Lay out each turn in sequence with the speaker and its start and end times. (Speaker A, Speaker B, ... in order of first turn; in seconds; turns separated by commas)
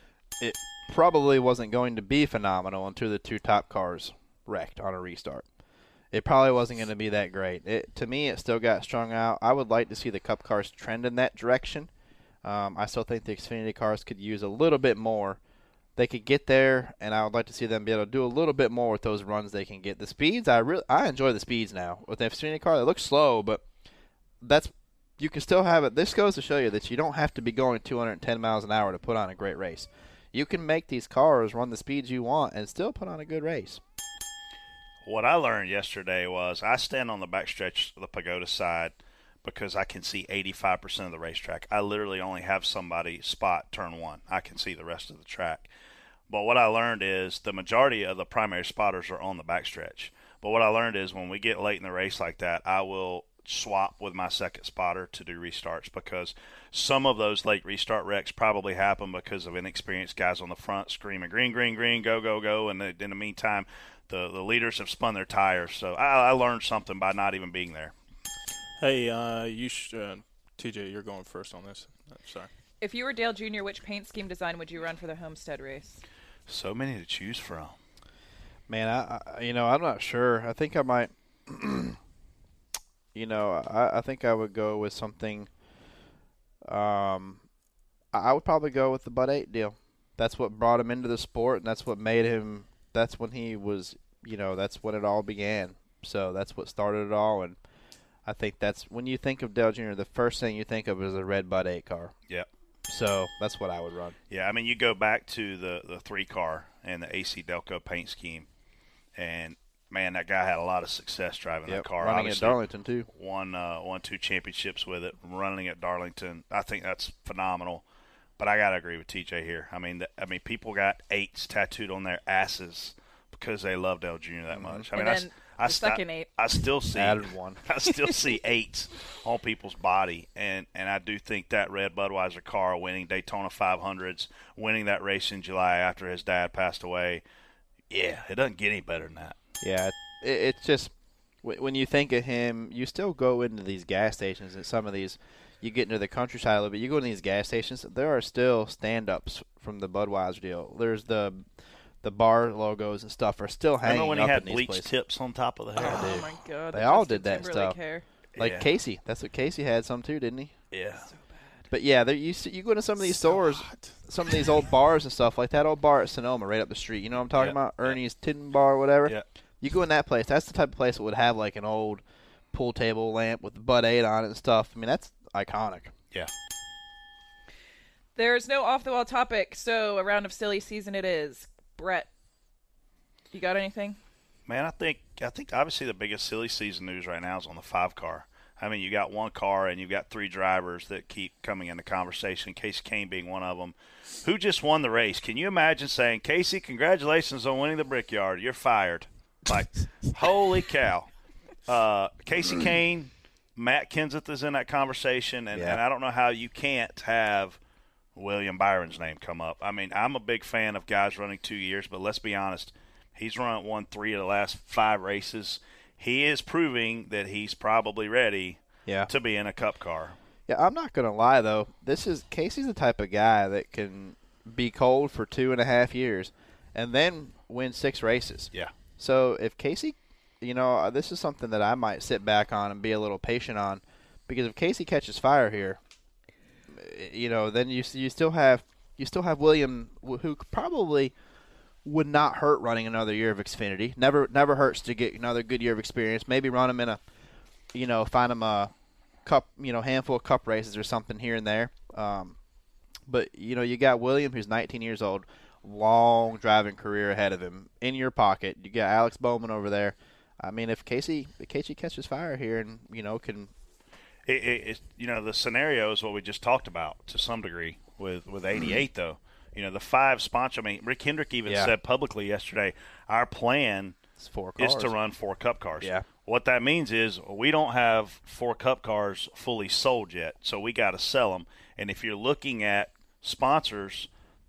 Speaker A: 0.4-5.5, Speaker A: 6.1-11.9, Speaker A: 12.4-15.4, Speaker A: 16.0-23.6, Speaker A: 24.4-33.8, Speaker B: 35.0-45.7, Speaker B: 46.3-67.9, Speaker C: 68.8-72.5, Speaker D: 72.8-76.0, Speaker B: 76.5-77.8, Speaker A: 78.7-82.0, Speaker A: 83.2-85.5, Speaker A: 86.7-87.4, Speaker A: 88.1-97.6, Speaker A: 98.2-102.1, Speaker A: 102.9-104.2, Speaker B: 104.3-108.5, Speaker B: 109.2-112.6, Speaker A: 111.7-113.1, Speaker B: 113.2-117.8, Speaker B: 118.4-137.2, Speaker A: 124.5-124.9, Speaker D: 124.9-126.3, Speaker A: 126.9-127.6, Speaker B: 137.9-139.4, Speaker A: 139.6-140.9, Speaker A: 141.4-151.4, Speaker A: 152.0-154.9, Speaker B: 153.8-156.2, Speaker A: 155.8-157.8, Speaker D: 155.8-158.1, Speaker B: 158.4-158.7, Speaker A: 158.4-160.5, Speaker B: 160.7-161.1, Speaker D: 161.1-161.6, Speaker A: 161.7-172.0, Speaker C: 163.2-163.8, Speaker B: 167.3-168.0, Speaker A: 172.5-175.9, Speaker D: 178.2-182.1, Speaker D: 183.3-184.0, Speaker B: 184.5-201.1, Speaker B: 201.7-207.6, Speaker A: 205.5-205.8, Speaker B: 208.2-220.2, Speaker A: 218.9-219.1, Speaker A: 220.5-235.8, Speaker A: 236.7-241.1, Speaker A: 241.8-247.0, Speaker A: 247.7-248.7, Speaker A: 249.2-252.4, Speaker A: 253.1-263.5, Speaker B: 264.3-274.0, Speaker A: 271.5-271.7, Speaker A: 274.2-274.9, Speaker B: 274.6-284.1